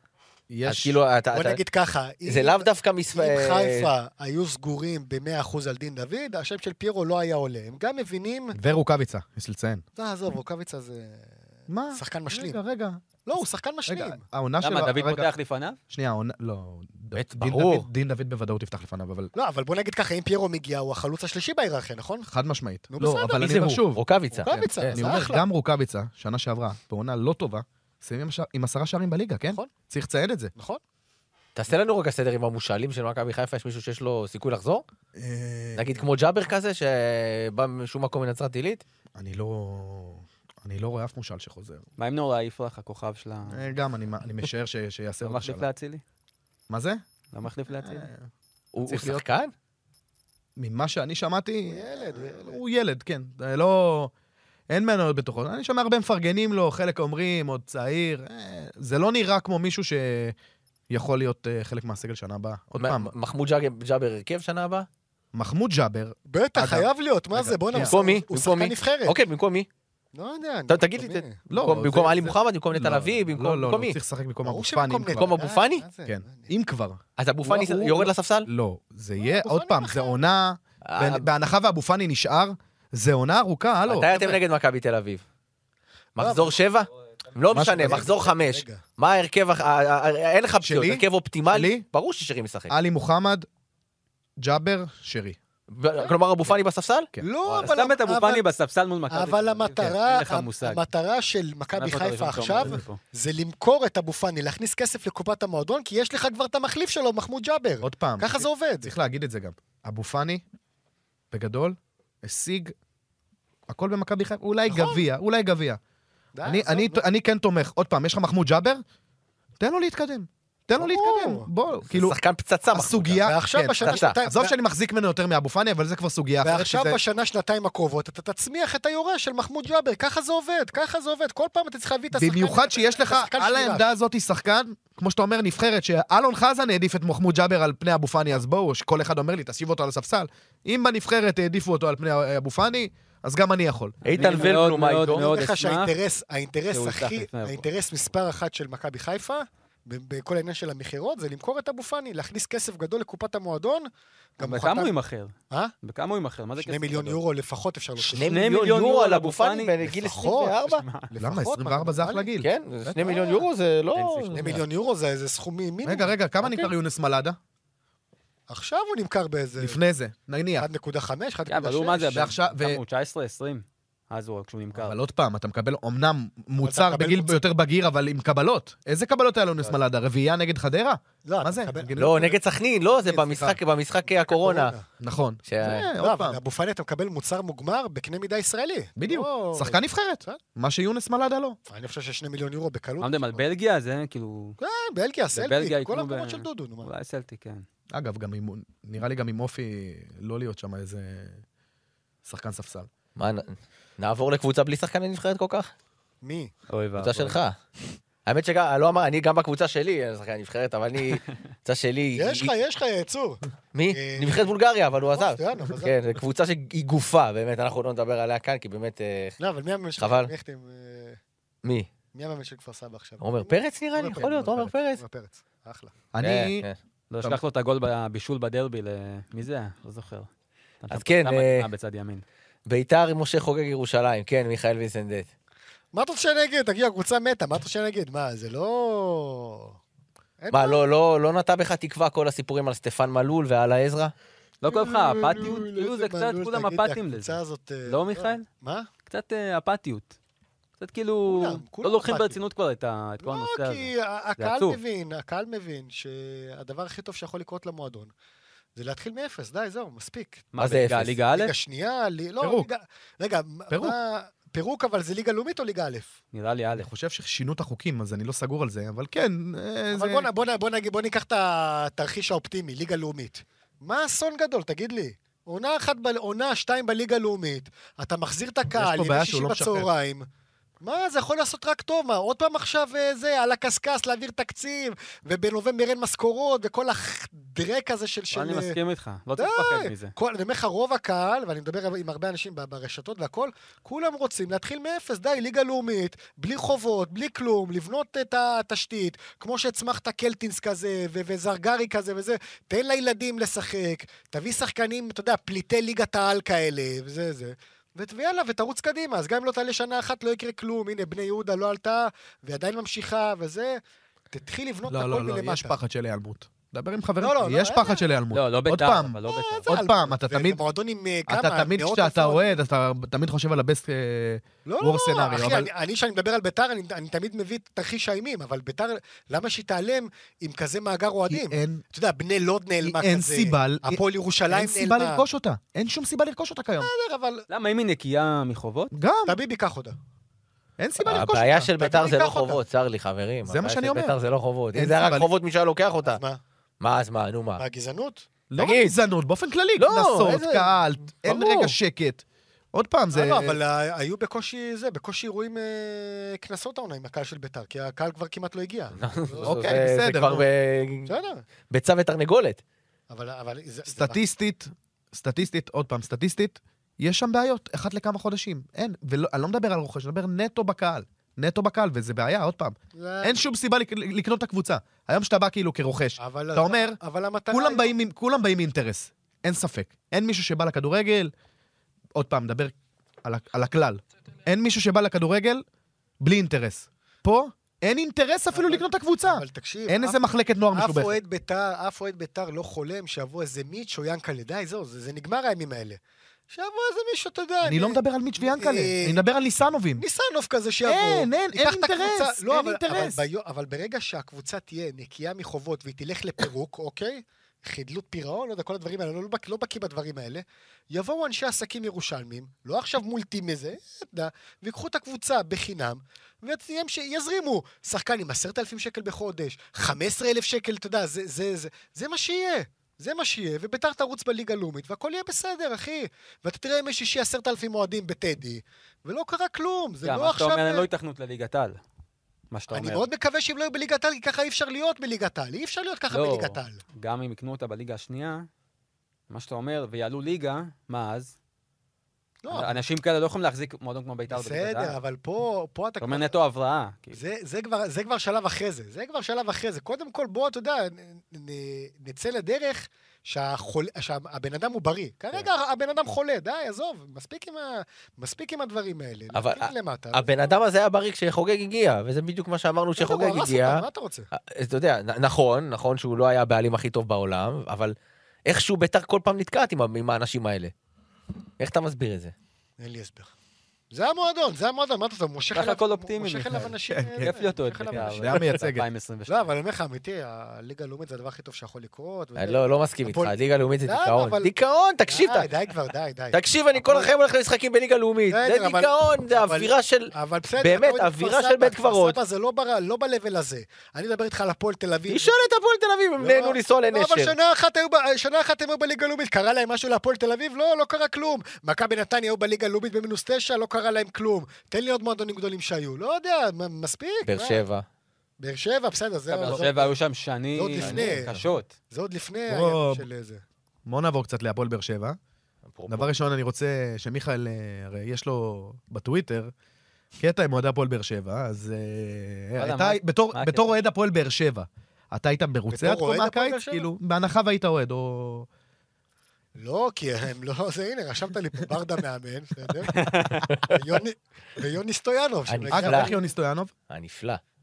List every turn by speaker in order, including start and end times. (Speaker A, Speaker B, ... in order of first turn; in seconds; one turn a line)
Speaker A: 0.5-1.0
Speaker B: 0.6-1.6
Speaker C: 1.3-8.6
Speaker B: 2.2-3.9
Speaker A: 8.5-9.8
Speaker C: 9.9-11.3
Speaker A: 11.7-15.3
Speaker C: 11.9-12.6
Speaker C: 13.2-14.2
Speaker D: 14.6-15.8
Speaker A: 15.9-19.3
Speaker B: 17.1-17.9
Speaker C: 19.3-22.3
Speaker A: 22.3-30.5
Speaker C: 22.9-23.6
Speaker B: 23.4-25.4
Speaker C: 24.3-25.4
Speaker C: 30.6-30.8
Speaker B: 31.5-34.8
Speaker A: 35.1-36.0
Speaker B: 35.8-38.8
Speaker A: 39.2-41.8
Speaker D: 42.0-43.6
Speaker A: 43.5-45.6
Speaker D: 45.2-46.0
Speaker A: 46.7-47.0
Speaker D: 47.3-48.1
Speaker A: 47.7-48.3
Speaker B: 48.7-49.5
Speaker A: 48.9-49.2
Speaker A: 50.5-54.1
Speaker C: 51.7-52.6
Speaker A: 54.7-60.4
Speaker A: 60.9-63.1
Speaker B: 62.8-64.9
Speaker A: 65.3-67.9
Speaker C: 66.3-69.2
Speaker B: 67.8-69.7
Speaker C: 70.1-71.4
Speaker B: 70.7-74.0
Speaker A: 71.5-75.4
Speaker C: 74.4-76.5
Speaker B: 75.1-75.8
Speaker A: 76.0-84.4
Speaker B: 77.2-78.5
Speaker C: 79.2-80.2
Speaker B: 80.8-81.3
Speaker B: 83.8-85.2
Speaker B: 86.2-92.7
Speaker C: 86.2-86.6
Speaker A: 87.5-88.1
Speaker C: 87.8-88.8
Speaker A: 90.6-91.8
Speaker A: 92.7-93.5
Speaker A: 94.4-95.4
Speaker B: 95.7-97.7
Speaker C: 97.2-98.4
Speaker D: 97.6-100.8
Speaker C: 99.1-108.9
Speaker D: 101.7-103.0
Speaker A: 107.8-110.4
Speaker A: 111.3-112.7
Speaker A: 113.7-115.8
Speaker C: 114.7-115.0
Speaker C: 116.3-117.0
Speaker A: 116.4-118.8
Speaker A: 119.6-122.2
Speaker C: 120.8-121.5
Speaker B: 121.9-124.2
Speaker A: 122.7-127.0
Speaker C: 123.2-124.5
Speaker C: 126.4-133.8
Speaker A: 132.1-144.0
Speaker D: 144.0-145.9
Speaker B: 144.0-145.2
Speaker C: 144.2-154.9
Speaker D: 146.7-147.6
Speaker D: 154.4-157.2
Speaker C: 156.6-158.4
Speaker D: 158.1-160.0
Speaker B: 158.1-160.8
Speaker C: 159.8-162.3
Speaker D: 160.6-161.1
Speaker A: 161.2-162.9
Speaker B: 162.4-164.6
Speaker C: 162.9-163.4
Speaker D: 163.9-164.6
Speaker C: 164.3-166.1
Speaker A: 165.8-167.4
Speaker B: 166.4-166.7
Speaker C: 168.5-169.8
Speaker A: 169.6-170.7
Speaker C: 170.6-172.3
Speaker D: 171.5-175.0
Speaker A: 172.1-172.8
Speaker A: 174.7-182.3
Speaker C: 176.6-177.4
Speaker C: 181.2-182.4
Speaker B: 181.9-184.7
Speaker A: 183.1-183.6
Speaker C: 184.3-184.8
Speaker A: 185.0-186.4
Speaker B: 185.4-185.9
Speaker C: 185.9-190.4
Speaker A: 189.0-191.6
Speaker C: 191.7-193.4
Speaker D: 193.0-194.6
Speaker C: 194.6-196.9
Speaker D: 195.3-197.6
Speaker A: 197.9-201.4
Speaker A: 202.2-202.9
Speaker B: 203.2-205.7
Speaker C: 206.2-206.5
Speaker D: 206.7-207.3
Speaker B: 206.9-207.6
Speaker B: 208.2-212.5
Speaker C: 212.1-214.5
Speaker B: 213.7-219.4
Speaker C: 215.1-215.9
Speaker C: 219.4-221.2
Speaker B: 220.0-220.3
Speaker B: 221.6-221.9
Speaker C: 222.1-225.9
Speaker B: 223.2-225.0
Speaker A: 226.1-226.7
Speaker B: 226.2-226.8
Speaker D: 227.1-230.3
Speaker D: 230.8-232.2
Speaker B: 230.9-231.7
Speaker B: 232.7-235.3
Speaker C: 235.9-239.8
Speaker C: 240.4-240.8
Speaker B: 240.5-244.1
Speaker D: 244.6-248.4
Speaker C: 244.6-248.9
Speaker D: 249.1-250.1
Speaker D: 250.8-254.8
Speaker C: 251.3-252.4
Speaker C: 253.2-258.1
Speaker C: 258.8-260.5
Speaker D: 260.5-261.5
Speaker B: 260.6-261.2
Speaker C: 261.3-266.1
Speaker A: 262.4-262.7
Speaker A: 263.7-263.9
Speaker D: 266.3-266.9
Speaker A: 266.8-270.3
Speaker C: 269.9-280.3
Speaker A: 278.7-279.9
Speaker C: 280.8-288.8
Speaker D: 288.3-290.1
Speaker C: 289.4-313.8
Speaker C: 314.3-315.8
Speaker A: 314.9-320.6
Speaker C: 317.2-318.0
Speaker D: 318.3-319.7
Speaker C: 319.2-322.6
Speaker A: 321.3-325.7
Speaker C: 324.6-335.2
Speaker A: 331.3-331.8
Speaker A: 332.8-336.9
Speaker C: 336.8-337.4
Speaker D: 337.5-338.9
Speaker A: 338.9-339.4
Speaker C: 339.2-339.9
Speaker A: 340.8-341.7
Speaker B: 341.0-346.2
Speaker C: 341.8-342.6
Speaker A: 343.4-344.1
Speaker A: 344.7-345.3
Speaker C: 346.1-346.4
Speaker B: 346.8-347.6
Speaker C: 347.6-348.3
Speaker A: 348.5-353.6
Speaker B: 348.6-348.9
Speaker B: 349.8-350.7
Speaker B: 351.3-351.7
Speaker C: 353.1-359.7
Speaker B: 358.9-361.1
Speaker A: 359.4-360.4
Speaker C: 361.1-361.4
Speaker B: 361.7-362.6
Speaker C: 363.1-364.2
Speaker A: 363.9-377.0
Speaker C: 372.9-373.4
Speaker C: 376.2-377.9
Speaker A: 377.5-381.3
Speaker A: 382.1-385.6
Speaker A: 386.2-391.2
Speaker C: 388.5-390.2
Speaker C: 390.7-396.0
Speaker C: 396.5-399.2
Speaker A: 397.6-400.0
Speaker C: 400.0-430.9
Speaker A: 400.8-403.2
Speaker D: 430.0-431.8
Speaker D: 432.5-433.1
Speaker C: 432.7-436.8
Speaker D: 436.1-438.5
Speaker D: 439.3-441.3
Speaker C: 442.4-442.7
Speaker D: 442.5-444.9
Speaker C: 444.3-446.3
Speaker D: 446.0-447.2
Speaker C: 447.1-460.4
Speaker B: 459.3-467.9
Speaker C: 463.0-464.3
Speaker B: 468.4-470.7
Speaker B: 471.6-472.3
Speaker C: 472.8-473.3
Speaker C: 473.9-478.4
Speaker D: 475.5-479.5
Speaker A: 476.9-477.3
Speaker A: 477.9-478.8
Speaker C: 479.3-483.3
Speaker B: 482.4-485.5
Speaker C: 483.8-484.5
Speaker C: 485.1-487.1
Speaker B: 486.3-492.2
Speaker C: 488.3-495.3
Speaker B: 495.1-497.3
Speaker C: 496.2-507.6
Speaker B: 507.2-507.8
Speaker C: 508.4-509.9
Speaker D: 509.3-511.7
Speaker C: 510.5-513.4
Speaker B: 510.8-511.2
Speaker A: 512.5-513.0
Speaker A: 513.9-515.2
Speaker B: 515.7-516.1
Speaker A: 515.9-519.5
Speaker A: 520.2-528.5
Speaker D: 522.6-523.7
Speaker C: 525.7-526.9
Speaker C: 529.6-533.1
Speaker D: 532.9-533.4
Speaker C: 533.6-536.3
Speaker B: 535.5-536.1
Speaker A: 535.7-536.7
Speaker B: 536.9-537.4